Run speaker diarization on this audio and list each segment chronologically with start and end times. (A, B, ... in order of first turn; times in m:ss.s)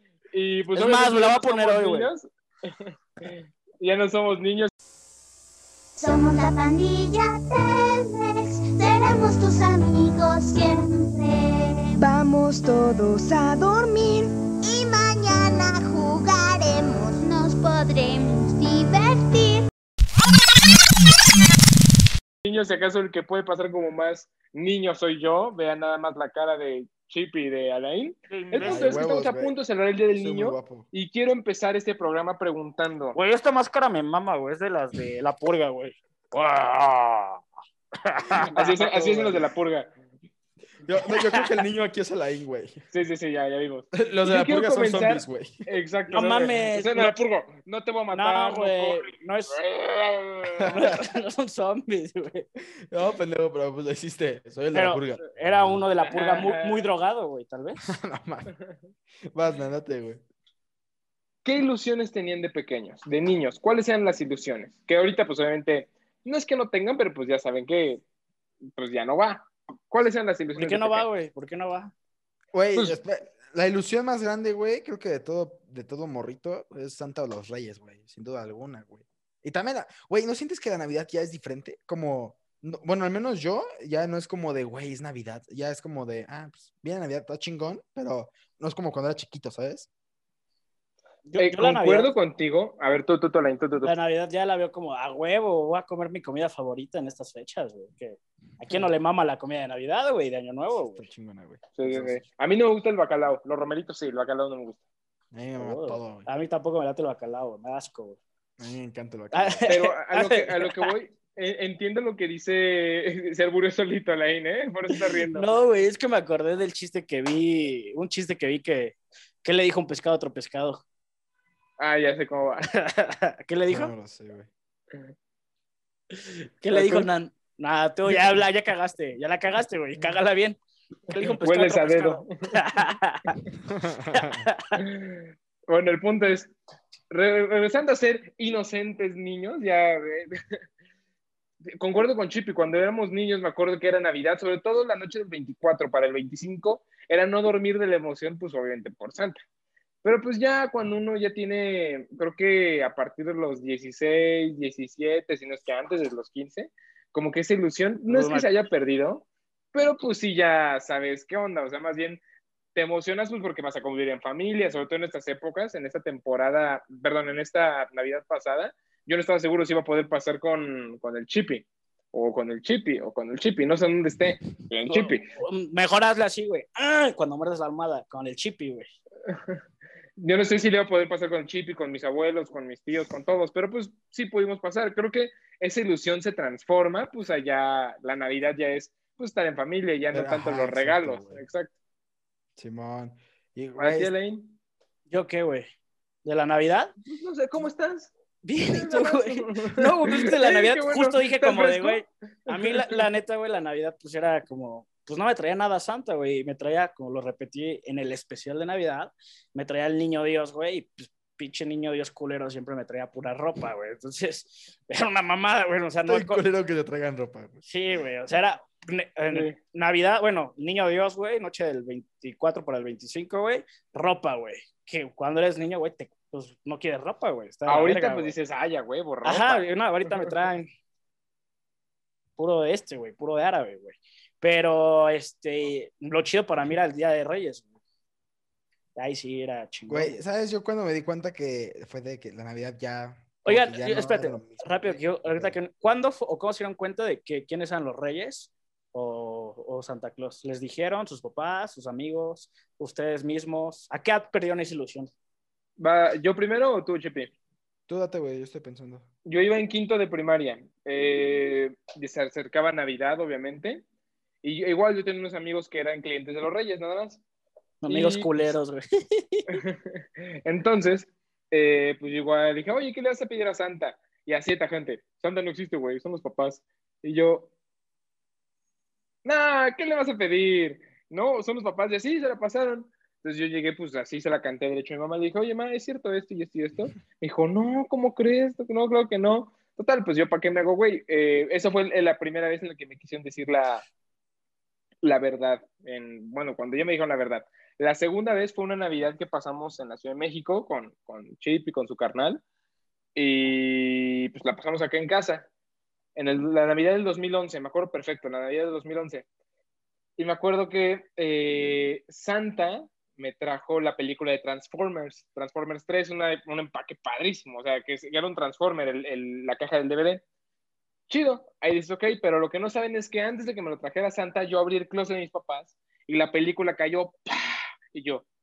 0:00.3-0:04.7 A
0:00.7-0:02.1 B
0:06.0-0:12.0 C
0:12.0-0:14.3 D
0:14.6-0:19.7 C
0:22.4-0:33.2 A
0:28.3-0:29.1 B
0:28.6-0:29.6 E
0:30.1-0:30.9 E
0:33.2-0:37.4 B
0:38.0-0:39.3 B
0:38.5-0:39.9 A
0:40.9-0:42.8 E
0:41.1-0:41.5 B
0:42.9-0:50.9 A
0:43.9-0:45.7 E
0:46.1-0:47.2 B
0:48.1-0:49.6 B
0:50.5-0:51.0 E
0:50.7-0:52.5 B
0:52.9-0:55.8 E
0:54.7-0:57.9 B
0:56.1-0:56.9 A
0:57.8-0:58.5 E
0:59.3-1:00.2 E
1:01.4-1:08.0 A
1:08.8-1:11.1 A
1:10.6-1:11.9 B
1:12.5-1:29.9 E
1:31.3-1:32.1 B
1:31.4-1:33.9 A
1:33.8-1:41.1 B
1:40.8-1:42.2 E
1:41.8-1:44.8 A
1:45.3-1:46.3 E
1:45.6-1:48.2 B
1:48.6-1:49.6 E
1:49.3-1:50.9 B
1:49.7-1:55.5 A
1:54.9-2:00.8 B
2:01.8-2:02.7 A
2:02.7-2:03.9 B
2:03.7-2:04.5 E
2:06.1-2:13.4 B
2:06.7-2:07.1 A
2:11.4-2:12.5 A
2:13.7-2:14.4 E
2:14.1-2:14.8 B
2:14.8-2:16.5 A
2:17.1-2:20.4 A
2:21.8-2:29.4 A
2:30.0-2:42.2 A
2:38.1-2:38.5 B
2:42.8-2:55.3 A
2:54.9-2:58.9 B
3:00.2-3:11.7 A
3:10.1-3:11.4 E
3:12.6-3:14.1 E
3:13.8-3:14.6 A
3:15.1-3:15.7 B
3:16.2-3:16.9 B
3:17.1-3:23.0 A
3:18.4-3:36.4 B
3:36.1-3:37.6 E
3:37.7-3:48.4 B
3:39.3-3:39.6 A
3:47.7-3:50.3 A
3:49.2-3:50.7 B
3:52.4-3:57.7 B
3:59.0-4:00.2 B
3:59.9-4:05.6 E
4:03.4-4:15.1 B
4:15.8-4:17.3 A
4:17.9-4:19.1 E
4:19.2-4:23.8 A
4:24.4-4:27.2 A
4:27.8-4:29.6 B
4:27.9-4:28.3 A
4:29.5-4:29.8 A
4:30.4-4:37.5 A
4:39.2-4:53.8 A
4:55.0-5:02.4 A
5:03.2-5:05.5 A
5:06.2-5:09.3 A
5:10.2-5:20.2 A
5:21.1-5:28.2 A